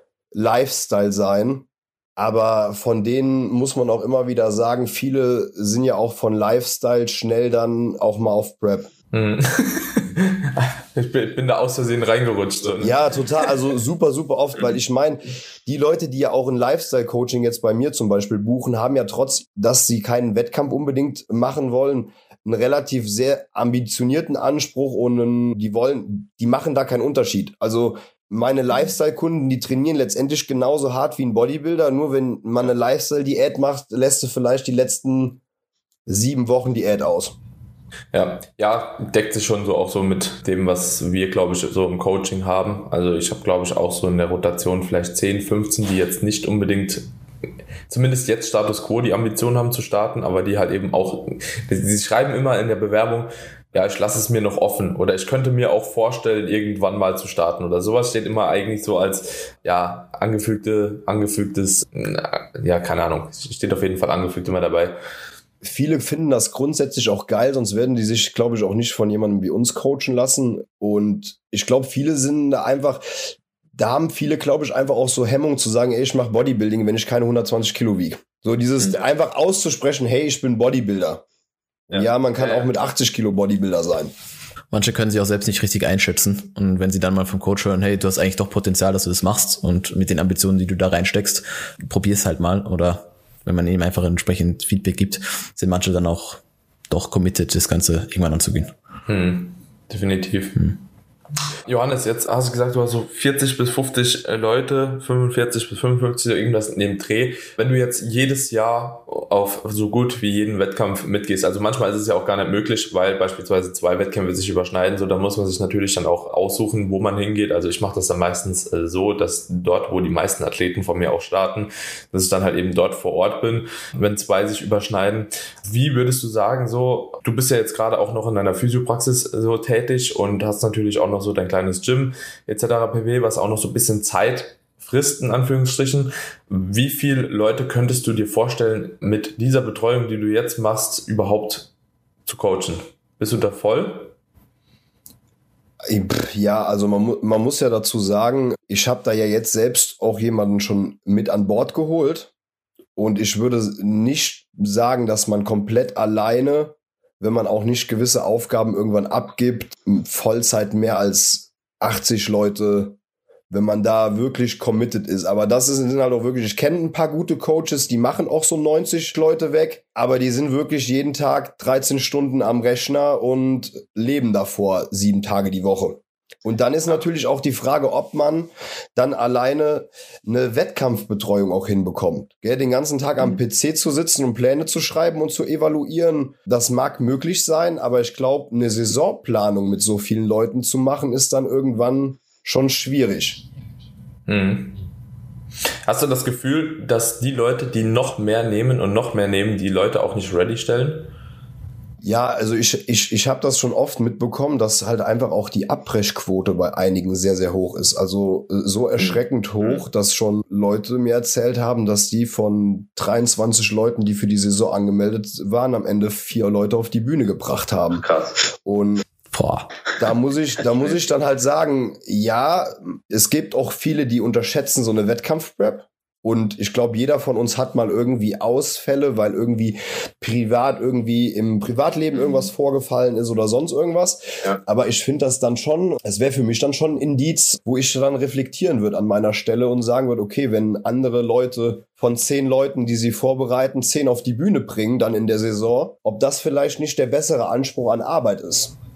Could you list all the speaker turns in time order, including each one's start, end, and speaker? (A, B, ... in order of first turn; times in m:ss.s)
0:00.3-0:01.6 A
0:02.2-0:08.9 A
0:09.1-0:13.0 B
0:12.8-0:35.4 A
0:36.1-0:37.4 A
0:38.1-0:47.1 B
0:47.9-1:04.9 B
1:05.6-1:13.2 A
1:13.7-1:21.2 A
1:21.9-1:22.7 B
1:21.9-1:24.1 A
1:24.7-1:38.7 C
1:39.1-1:40.7 B
1:41.6-2:21.7 B
2:22.2-2:24.1 B
2:25.9-2:32.3 A
2:33.0-2:43.0 A
2:43.5-3:13.4 A
3:14.3-3:14.8 B
3:15.8-3:21.1 B
3:22.0-3:38.1 A
3:38.6-3:39.0 A
3:39.3-3:39.8 C
3:40.0-4:08.7 A